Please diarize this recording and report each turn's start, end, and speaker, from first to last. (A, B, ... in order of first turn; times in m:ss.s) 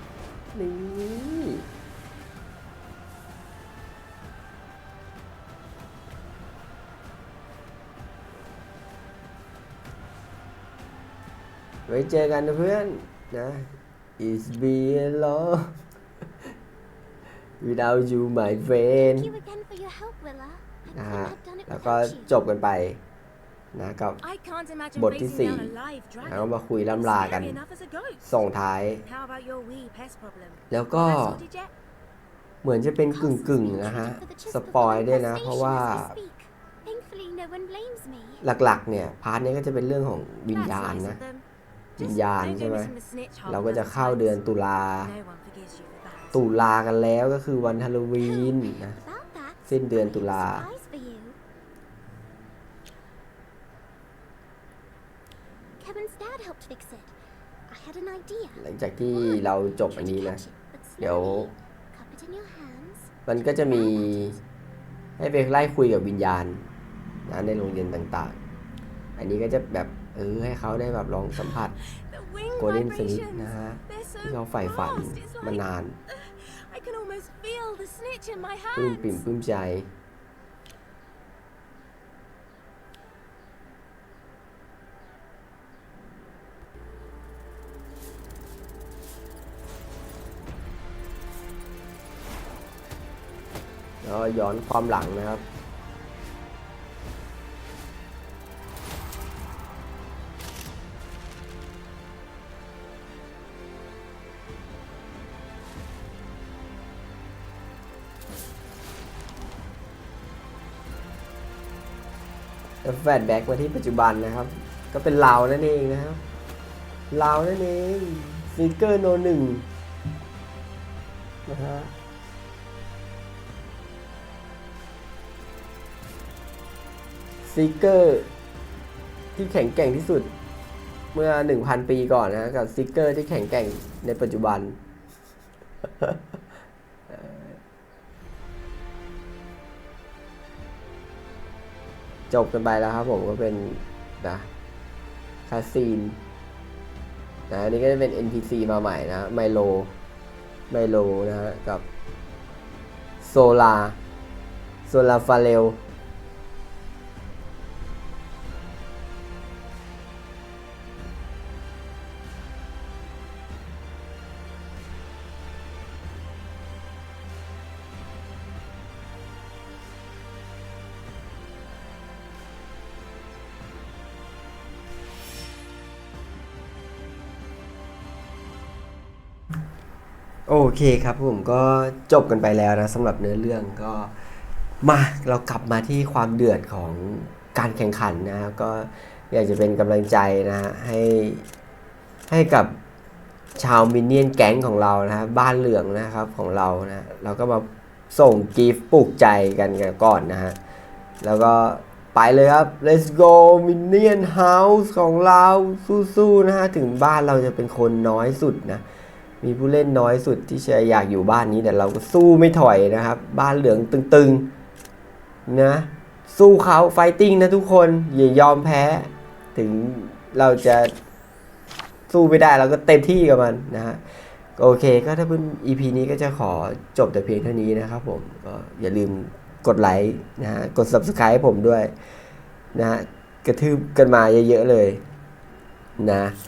0:00.5-0:01.6 A
0:11.9-0:15.7 A
0:17.6-0:19.3 A
0:18.8-0:22.4 B
0:20.9-0:23.0 A
0:23.7-0:24.2 A
0:24.2-0:28.2 C
0:25.0-0:27.6 A
0:28.2-0:29.0 A
0:29.0-0:31.7 C
0:30.7-0:31.4 A
0:32.6-0:36.2 A
0:33.1-0:38.4 B
0:38.4-0:41.2 A
0:40.5-0:41.4 C
0:42.0-0:42.9 A
0:42.0-0:44.5 C
0:43.4-0:45.1 A
0:45.0-0:46.5 C
0:46.3-0:49.0 A
0:48.2-0:51.4 B
0:49.7-0:50.7 A
0:55.8-0:57.1 B
0:57.7-1:04.4 B
0:58.6-1:00.4 A
1:01.0-1:01.5 A
1:03.2-1:04.4 A
1:05.2-1:06.7 A
1:07.2-1:08.4 A
1:09.2-1:11.7 A
1:12.1-1:19.2 C
1:12.6-1:16.0 A
1:18.7-1:19.9 A
1:34.0-1:35.4 A
1:52.8-1:56.2 A
1:57.1-1:59.6 A
2:01.5-2:01.9 A
2:07.4-2:08.3 A
2:09.4-2:10.3 A
2:11.1-2:14.8 A
2:15.8-2:16.2 A
2:17.1-2:17.6 A
2:22.3-2:24.5 A
2:25.4-2:26.2 A
2:27.5-2:29.9 A
2:30.7-2:31.8 A
2:33.2-2:34.0 A
2:34.8-2:35.8 A
3:00.5-3:04.1 A
3:04.8-3:11.4 A
3:12.3-3:12.7 A
3:13.6-3:20.6 A
3:21.2-3:28.8 A
3:29.4-3:34.5 A
3:35.5-3:40.9 A
3:42.1-3:51.9 A
3:52.7-3:55.0 A
3:56.0-3:56.3 A